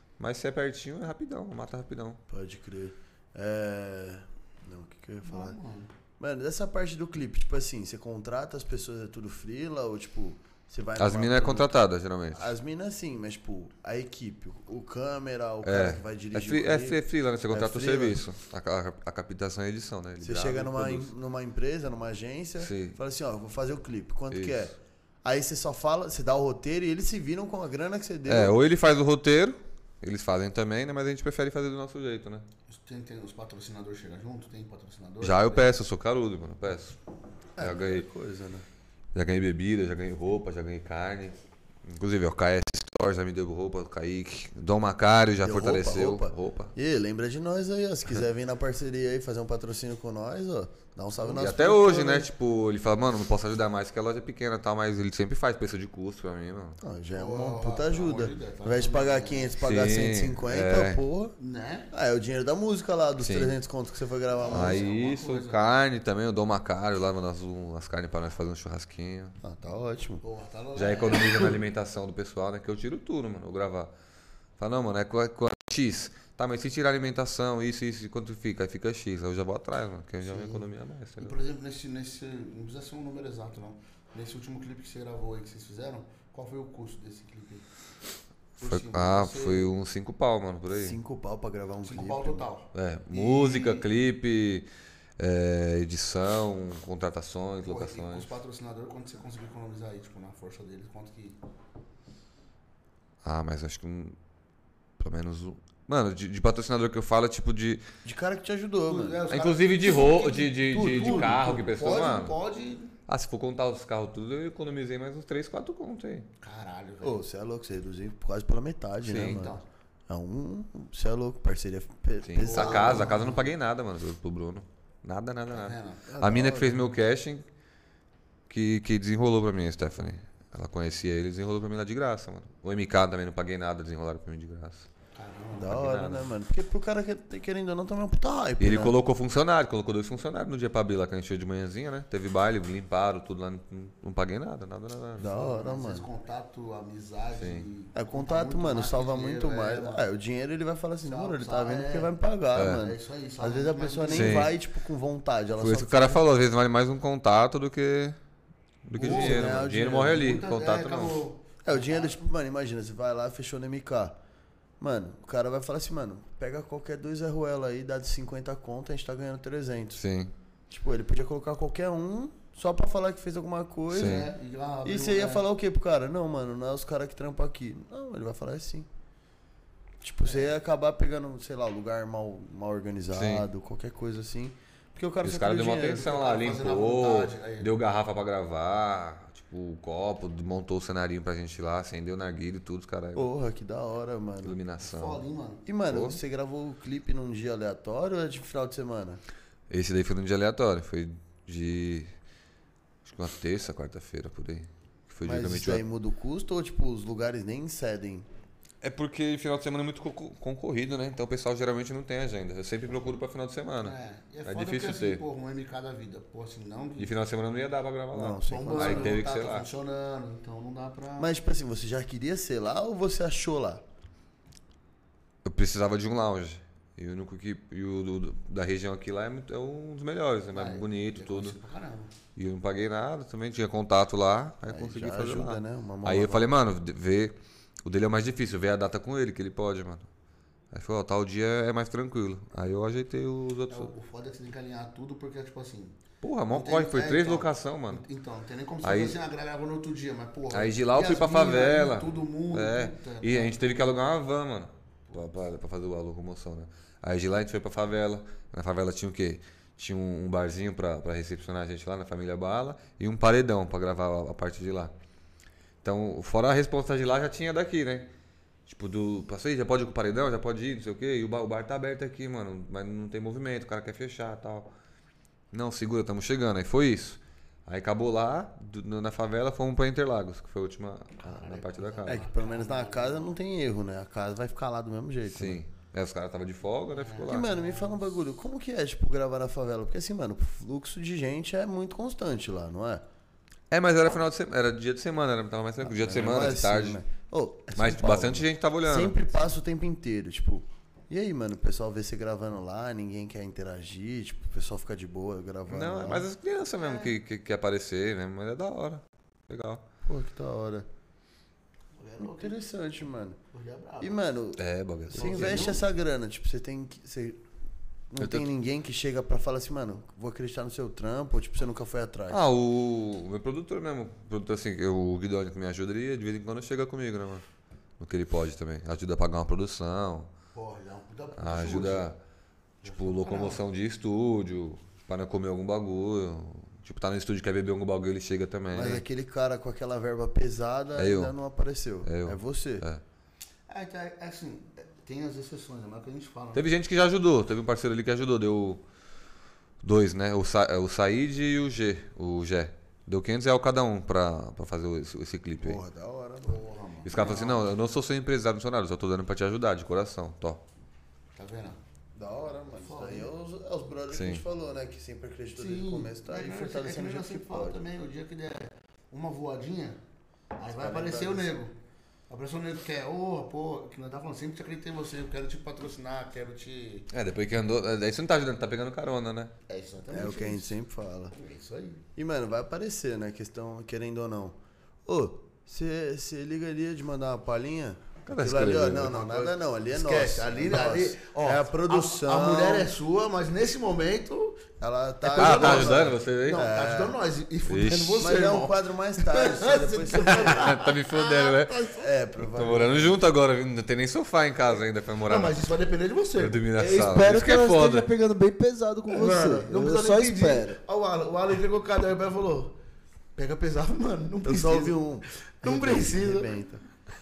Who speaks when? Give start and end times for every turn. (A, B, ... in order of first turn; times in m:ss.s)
0:00.2-0:02.2 A
0:02.3-0:05.6 B
0:05.2-0:05.9 C
0:06.2-0:11.8 B
0:11.0-0:12.5 A
0:12.3-0:17.0 B
0:15.6-0:21.1 A
0:17.5-0:18.2 B
0:20.2-0:28.6 B
0:22.6-0:23.0 A
0:24.3-0:24.7 A
0:28.3-0:32.4 A
0:32.7-0:35.7 C
0:35.2-0:37.0 A
0:37.6-0:38.6 B
0:37.6-0:38.1 A
0:39.1-0:46.7 A
0:45.4-0:52.3 B
0:51.3-0:56.8 A
0:56.8-1:01.3 B
0:57.2-0:59.6 C
0:59.6-1:01.0 A
1:01.4-1:01.9 C
1:01.9-1:04.8 B
1:03.2-1:03.5 A
1:04.3-1:05.6 C
1:04.5-1:09.4 A
1:09.4-1:10.2 B
1:10.2-1:11.6 C
1:10.8-1:13.9 A
1:14.6-1:21.4 A
1:20.3-1:20.6 C
1:21.2-1:27.7 C
1:28.6-1:31.0 A
1:28.6-1:29.7 C
1:30.7-1:32.5 B
1:31.8-1:33.9 C
1:32.7-1:34.7 A
1:35.2-1:38.3 A
1:37.6-1:41.4 C
1:43.2-1:44.2 A
1:45.0-1:47.8 A
1:48.0-1:49.2 B
1:48.9-1:52.9 C
1:49.3-1:52.4 A
1:50.7-1:51.5 B
1:53.1-1:56.3 A
1:56.4-1:57.2 C
1:57.0-2:03.3 B
1:59.0-1:59.4 A
1:59.2-1:59.6 C
2:02.2-2:07.4 A
2:02.4-2:03.4 C
2:05.5-2:06.6 C
2:06.2-2:06.8 B
2:08.5-2:14.9 A
2:15.2-2:15.8 C
2:15.5-2:19.0 B
2:15.6-2:16.3 A
2:18.6-2:25.3 A
2:25.2-2:26.1 B
2:25.2-2:30.1 C
2:27.4-2:27.7 A
2:28.0-2:36.2 B
2:31.0-2:34.5 C
2:32.6-2:32.8 A
2:34.1-2:34.5 A
2:35.6-2:38.2 A
2:38.8-2:41.2 A
2:39.0-2:40.2 B
2:39.0-2:42.2 C
2:41.6-2:44.2 B
2:44.8-2:50.0 B
2:50.0-2:50.3 A
2:50.7-2:54.3 B
2:53.9-2:54.3 A
2:53.9-2:55.4 C
2:54.8-2:58.9 B
3:00.0-3:06.1 B
3:00.2-3:00.5 C
3:03.1-3:03.5 A
3:05.2-3:13.3 A
3:05.9-3:07.7 C
3:13.2-3:14.6 B
3:14.4-3:15.2 A
3:14.8-3:15.6 C
3:15.7-3:19.2 B
3:15.9-3:16.2 A
3:19.7-3:22.1 A
3:23.0-3:25.8 A
3:25.2-3:28.3 B
3:28.8-3:35.2 A
3:33.8-3:37.1 C
3:37.0-3:39.7 A
3:38.1-3:39.2 B
3:38.5-3:41.3 C
3:41.2-3:43.8 B
3:45.4-3:51.6 A
3:50.5-3:52.1 C
3:52.4-4:00.1 A
3:54.7-3:56.5 B
4:00.7-4:03.9 A
4:03.7-4:06.0 C
4:06.2-4:08.0 A
4:06.5-4:13.8 C
4:08.8-4:09.2 A
4:10.5-4:24.9 A
4:25.8-4:28.1 A
4:28.7-4:34.7 A
4:35.5-4:42.3 A
4:41.2-4:43.4 C
4:42.1-4:45.6 B
4:45.3-4:47.5 A
4:46.9-4:48.1 C
4:47.2-4:53.0 B
4:53.7-4:57.0 A
4:55.8-5:06.3 B
4:57.8-4:59.2 A
5:05.7-5:09.8 A
5:10.1-5:10.9 B
5:12.0-5:12.6 C
5:12.2-5:13.4 B
5:13.5-5:14.2 C
5:14.0-5:17.4 B
5:14.6-5:15.8 A
5:15.1-5:15.8 C
5:18.1-5:22.4 B
5:18.2-5:18.5 A
5:22.3-5:27.4 A
5:28.0-5:30.3 A
5:30.6-5:32.1 C
5:31.4-5:32.2 A
5:32.8-5:33.6 C
5:32.8-5:39.0 A
5:38.7-5:42.8 B
5:41.0-5:41.3 A
5:42.0-5:43.0 A
5:43.7-5:46.7 C
5:46.5-5:48.8 A
5:49.8-5:55.8 A
5:55.6-5:56.6 B
5:56.4-5:57.7 C
5:57.0-6:00.6 A
6:01.4-6:01.8 C
6:02.2-6:07.8 B
6:02.8-6:03.3 C
6:04.1-6:04.4 A
6:05.6-6:10.0 C
6:10.6-6:11.7 C
6:10.7-6:11.6 B
6:12.3-6:17.1 C
6:17.1-6:19.5 A
6:19.7-6:20.8 C
6:20.1-6:21.4 B
6:21.3-6:22.0 C
6:22.2-6:32.9 B
6:28.3-6:29.2 A
6:29.0-6:34.6 C
6:34.8-6:37.2 B
6:35.2-6:42.1 C
6:35.4-6:36.7 A
6:37.7-6:38.2 A
6:38.2-6:40.8 B
6:40.2-6:41.9 A
6:42.0-6:43.2 B
6:42.5-6:45.6 A
6:45.2-6:46.6 C
6:46.4-6:48.1 A
6:46.8-6:50.8 D
6:49.1-6:52.8 C
6:49.2-6:49.7 B
6:53.4-6:55.0 C
6:54.4-6:56.8 B
6:55.6-6:56.5 C